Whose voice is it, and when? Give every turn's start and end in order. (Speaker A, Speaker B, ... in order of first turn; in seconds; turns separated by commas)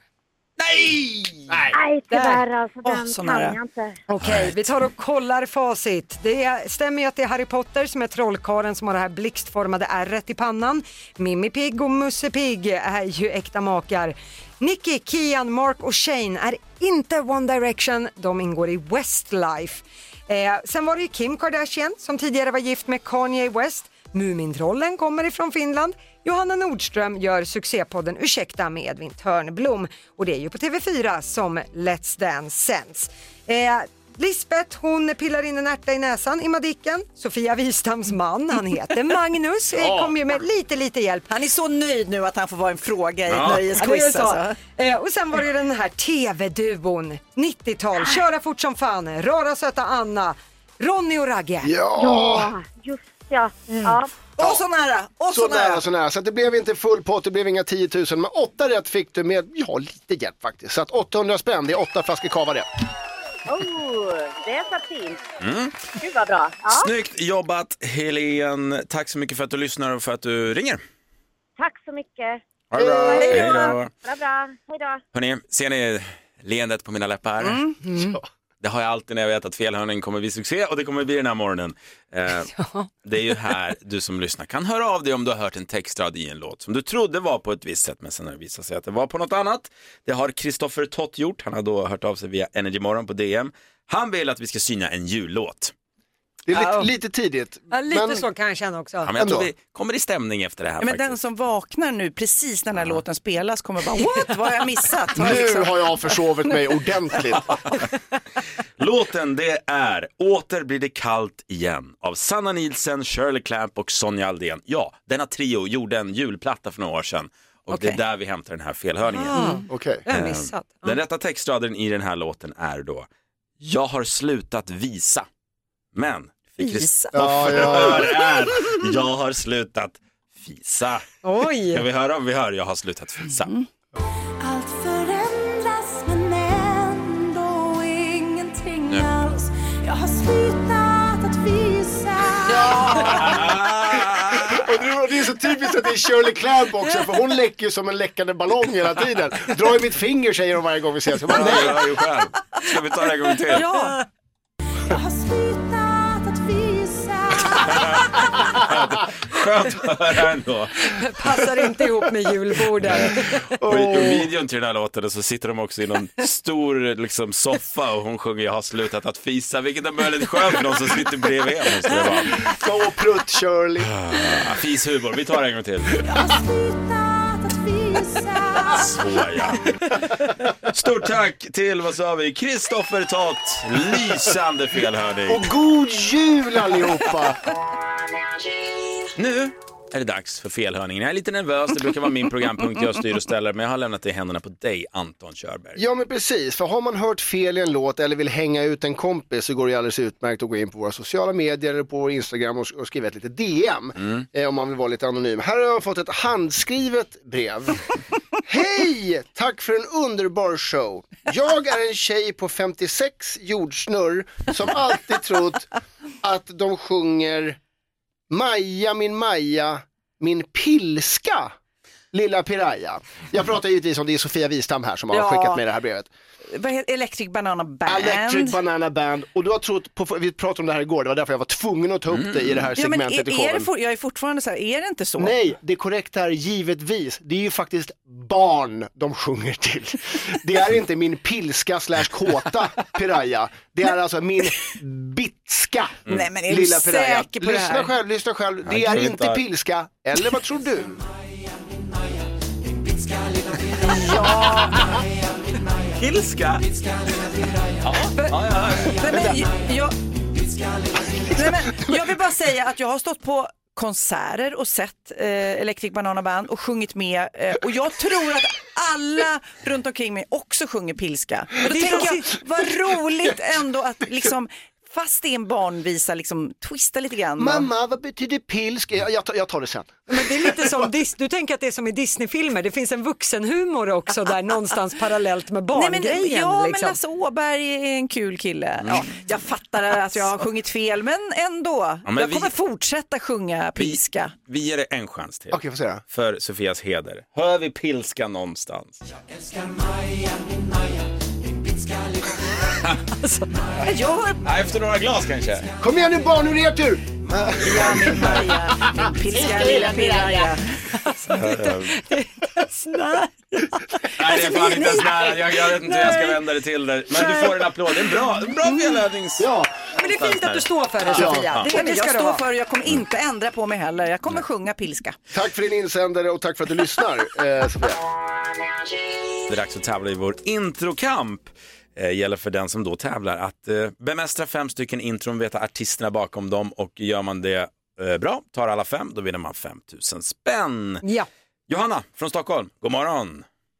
Speaker A: 0.6-1.5, Speaker B: 1.5-1.8, Speaker C: 1.7-4.0, Speaker D: 2.1-2.4, Speaker E: 2.1-3.6, Speaker D: 4.1-41.3, Speaker A: 4.2-4.5, Speaker E: 41.3-44.6, Speaker A: 43.3-43.6, Speaker D: 43.8-51.7, Speaker B: 51.6-52.5, Speaker C: 52.0-54.3, Speaker E: 54.4-55.8, Speaker B: 55.3-62.7, Speaker C: 63.5-65.2, Speaker A: 65.4-65.9, Speaker C: 66.0-66.9, Speaker A: 66.7-70.8, Speaker C: 71.6-72.4, Speaker A: 72.7-73.9, Speaker B: 72.8-73.5, Speaker C: 72.9-75.0, Speaker E: 73.2-73.7, Speaker A: 75.1-77.7, Speaker E: 77.4-77.8, Speaker B: 77.9-78.2, Speaker A: 78.6-82.5, Speaker D: 82.5-82.9, Speaker A: 83.0-95.7, Speaker B: 96.5-98.3, Speaker D: 96.5-96.9, Speaker D: 97.7-99.1, Speaker A: 99.0-101.1, Speaker B: 99.1-99.5, Speaker E: 100.8-106.5, Speaker A: 102.7-103.0, Speaker B: 105.1-107.8, Speaker A: 108.8-123.1, Speaker E: 117.7-118.0, Speaker D: 119.1-121.0, Speaker B: 119.7-120.0, Speaker A: 123.6-125.3, Speaker A: 125.9-131.1, Speaker D: 126.6-127.1, Speaker B: 127.1-128.3, Speaker D: 131.2-131.8, Speaker A: 131.7-133.5, Speaker F: 134.4-143.3, Speaker E: 142.7-143.1, Speaker A: 142.9-144.7, Speaker B: 144.5-151.9, Speaker A: 151.3-153.7, Speaker E: 153.5-154.0, Speaker F: 154.9-158.3, Speaker A: 157.7-161.0, Speaker D: 160.9-163.5, Speaker A: 162.9-172.5, Speaker B: 163.6-164.3, Speaker B: 172.4-173.9, Speaker A: 173.9-176.0, Speaker F: 176.1-179.0, Speaker A: 178.8-179.9, Speaker A: 180.5-185.5, Speaker B: 185.3-187.4, Speaker A: 189.2-195.8, Speaker B: 195.8-207.8, Speaker B: 208.4-215.7, Speaker B: 216.2-217.6, Speaker B: 218.3-221.5, Speaker B: 222.1-226.1, Speaker E: 225.1-225.6, Speaker E: 226.5-228.6, Speaker B: 227.8-233.7, Speaker A: 232.1-232.6, Speaker E: 232.8-235.4, Speaker B: 235.2-251.0, Speaker E: 246.1-247.9, Speaker A: 248.6-249.4, Speaker E: 253.8-255.0, Speaker A: 255.9-256.8, Speaker A: 257.8-259.4, Speaker E: 258.8-259.9, Speaker E: 261.1-277.7, Speaker D: 271.6-272.3, Speaker B: 277.4-280.7, Speaker D: 280.1-287.0, Speaker E: 285.7-294.3, Speaker A: 288.8-289.1, Speaker A: 292.1-292.5, Speaker A: 293.8-298.9, Speaker B: 295.5-296.0, Speaker D: 303.2-303.5, Speaker E: 303.8-304.4, Speaker A: 304.4-305.7, Speaker B: 305.8-310.5, Speaker E: 307.6-310.8, Speaker D: 311.0-314.1, Speaker A: 311.3-312.0, Speaker A: 314.1-319.5, Speaker E: 314.4-315.3, Speaker D: 315.8-316.4, Speaker E: 318.7-319.0, Speaker B: 319.4-319.7, Speaker D: 319.9-322.4, Speaker A: 320.0-321.7, Speaker B: 321.1-321.6, Speaker E: 321.7-325.1, Speaker B: 325.3-328.0, Speaker A: 329.5-341.0, Speaker D: 341.0-341.3, Speaker A: 341.7-343.4